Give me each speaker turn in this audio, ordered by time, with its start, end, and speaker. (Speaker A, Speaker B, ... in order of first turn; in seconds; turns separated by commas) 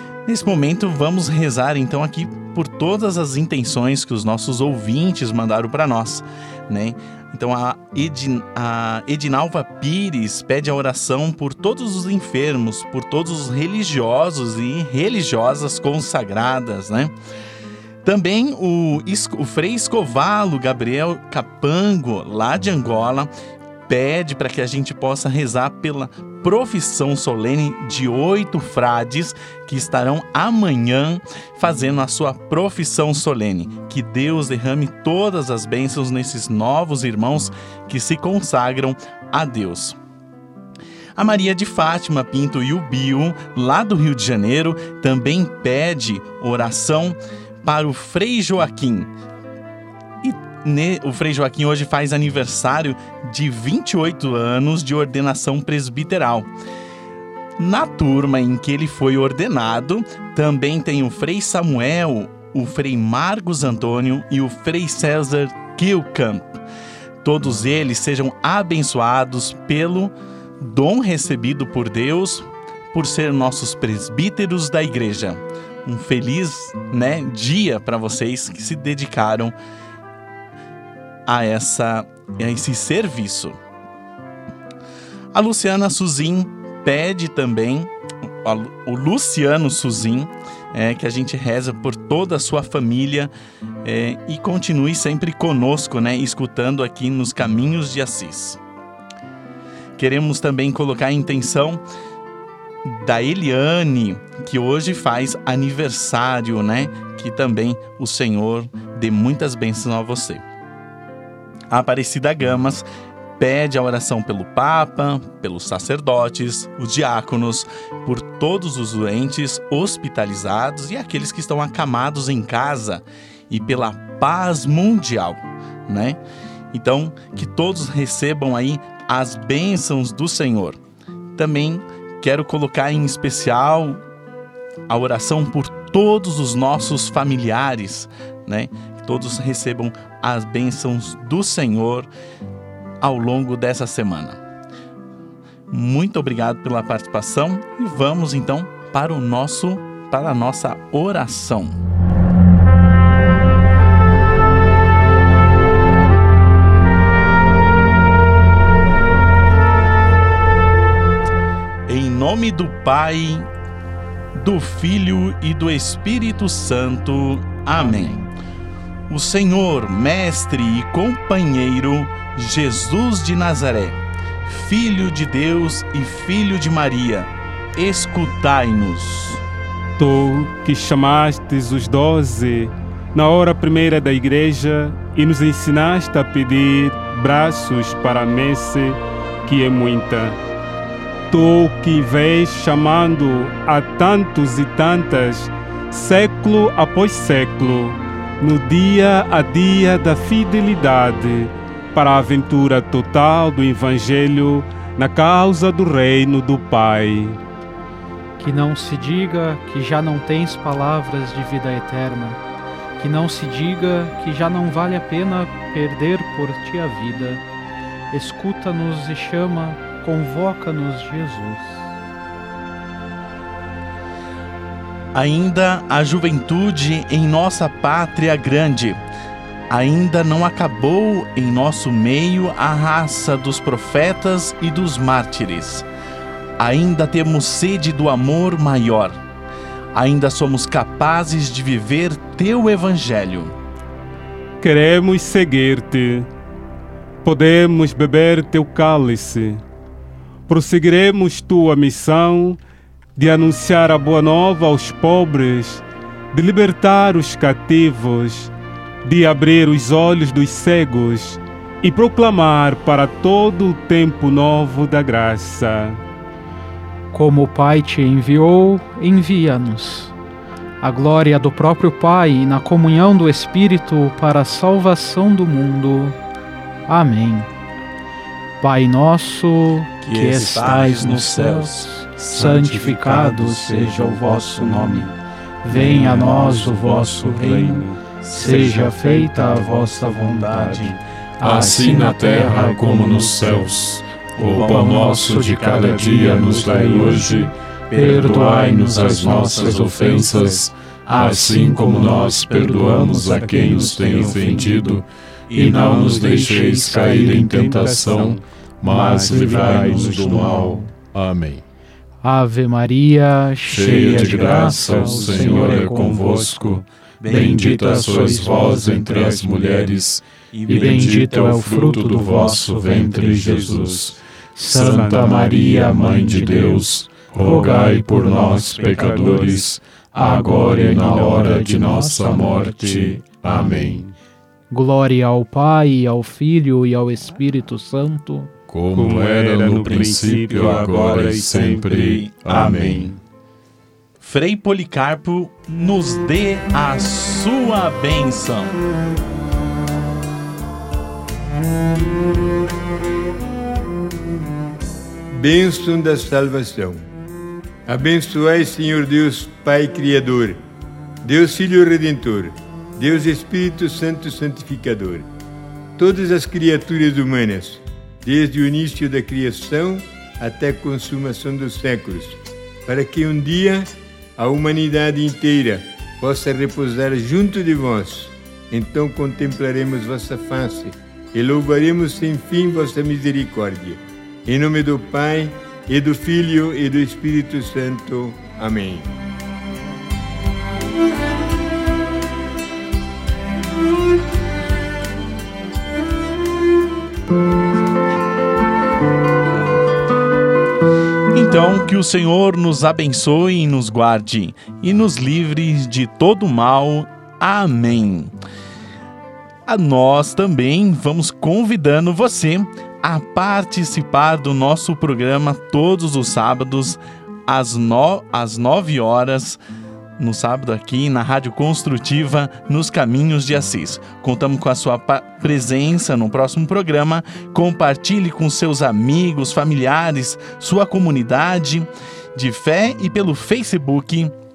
Speaker A: 0.2-17.1, Speaker A: 18.0-23.3, Speaker A: 23.9-40.0, Speaker A: 41.2-49.1, Speaker A: 50.2-56.5, Speaker A: 57.6-66.5, Speaker A: 67.2-79.5, Speaker A: 81.3-83.6, Speaker A: 85.3-87.9, Speaker A: 88.4-93.3, Speaker A: 93.8-98.6, Speaker A: 100.0-101.8, Speaker A: 102.8-110.4, Speaker A: 111.7-112.8, Speaker A: 113.4-126.2, Speaker A: 126.7-130.8, Speaker A: 131.3-134.0, Speaker A: 134.9-142.1, Speaker A: 143.0-144.4, Speaker A: 145.7-151.8, Speaker A: 161.9-163.5, Speaker A: 164.3-168.2, Speaker A: 169.1-179.4, Speaker B: 180.0-190.4, Speaker B: 191.3-207.4, Speaker C: 208.4-212.4, Speaker C: 213.0-217.4, Speaker C: 218.1-221.9, Speaker A: 225.1-229.0, Speaker A: 229.7-235.8, Speaker A: 236.6-239.2, Speaker A: 239.9-243.5, Speaker B: 244.6-246.3, Speaker B: 247.2-249.6, Speaker B: 250.5-252.6, Speaker B: 253.2-258.5, Speaker B: 259.0-266.0, Speaker C: 267.1-270.1, Speaker C: 270.8-276.1, Speaker C: 276.9-277.5, Speaker C: 278.6-285.1, Speaker A: 280.0-281.8, Speaker C: 285.6-290.9, Speaker A: 287.6-289.0, Speaker A: 290.2-291.0, Speaker D: 291.4-311.6, Speaker C: 291.4-292.6, Speaker C: 305.6-306.8, Speaker B: 306.3-307.0, Speaker B: 307.6-308.2, Speaker C: 309.1-310.2, Speaker C: 312.2-316.5, Speaker D: 313.7-334.1, Speaker A: 317.2-317.6, Speaker C: 317.3-319.2, Speaker A: 320.5-320.9, Speaker C: 320.7-322.7, Speaker C: 324.6-326.8, Speaker C: 327.5-327.8, Speaker C: 329.0-329.4, Speaker C: 330.7-332.5, Speaker C: 333.5-333.8, Speaker C: 334.7-338.5, Speaker D: 338.7-343.2, Speaker B: 338.9-341.9, Speaker A: 341.9-343.0, Speaker A: 344.2-348.7, Speaker E: 355.3-357.0, Speaker E: 357.9-360.6, Speaker E: 361.2-365.2, Speaker E: 366.0-389.1, Speaker A: 401.3-408.3, Speaker A: 409.7-419.6, Speaker A: 420.2-434.3